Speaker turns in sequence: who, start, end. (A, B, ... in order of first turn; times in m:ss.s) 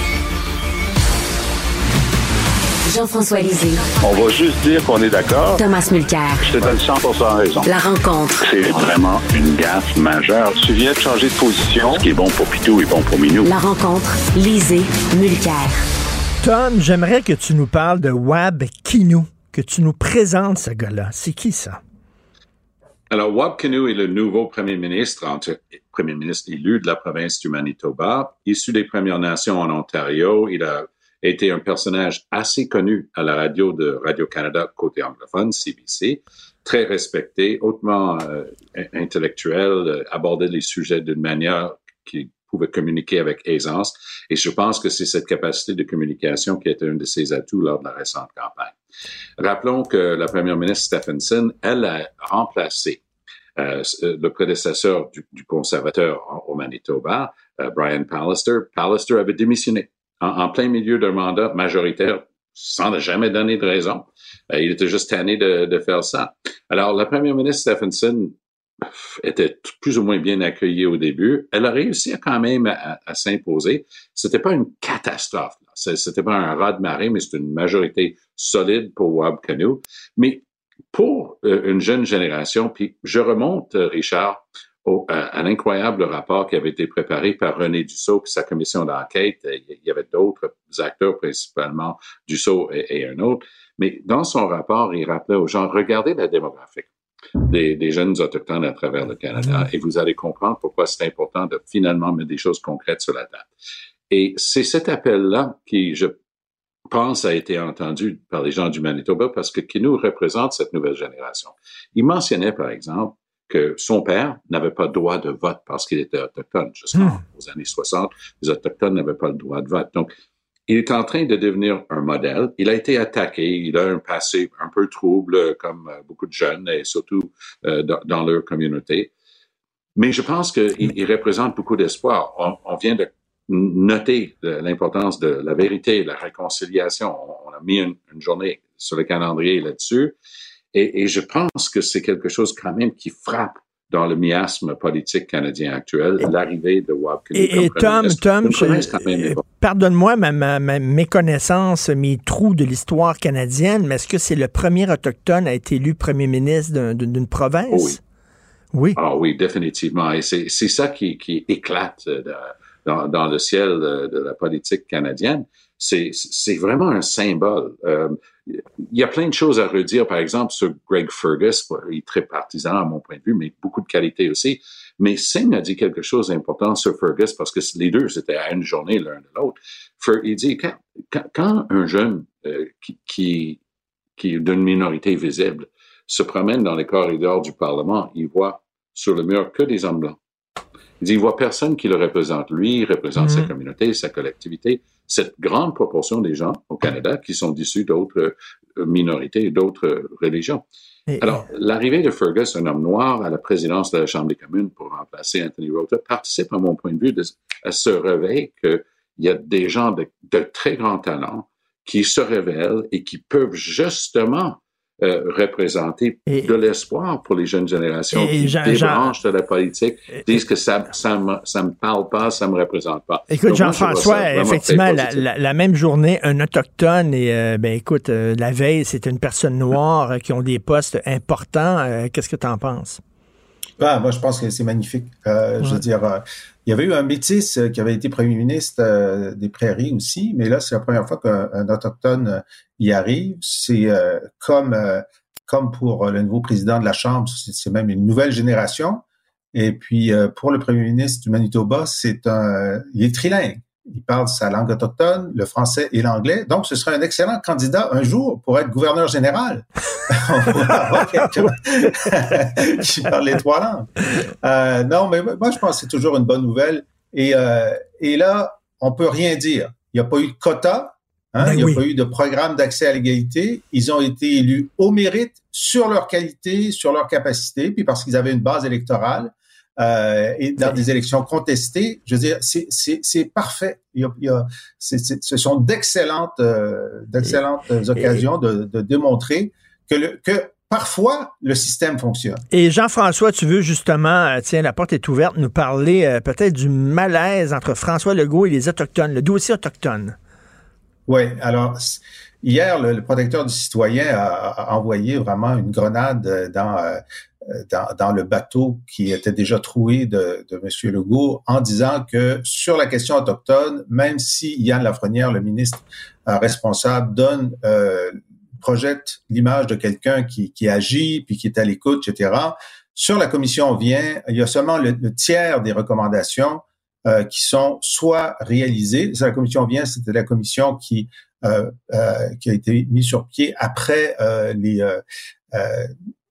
0:02.8-0:03.9 A
0:04.0-0:05.6 B
0:05.5-0:06.5 A
0:06.4-0:07.7 B
0:07.6-0:08.5 A
0:08.4-0:13.5 B
0:13.4-0:15.8 A
0:16.4-0:21.8 C
0:23.1-0:48.8 D
0:49.4-0:53.0 D
0:53.6-1:43.5 D
1:44.1-1:46.2 D
1:46.9-2:00.1 D
2:00.7-2:09.1 D
2:10.0-2:20.1 D
2:20.7-2:29.4 D
2:27.3-2:38.0 C
2:37.7-2:38.0 D
2:38.7-2:39.0 C
2:39.0-3:03.6 D
3:04.2-3:10.2 D
3:11.0-3:20.6 D
3:13.2-3:13.5 C
3:21.1-3:21.4 C
3:21.2-3:45.3 D
3:36.3-3:36.5 C
3:38.1-3:39.1 C
3:43.3-3:53.0 C
3:53.8-4:09.0 E
4:09.5-4:52.4 E
4:21.2-4:21.5 C
4:31.4-4:31.8 C
4:52.5-5:00.2 C
5:01.1-5:35.0 E
5:35.5-5:35.9 E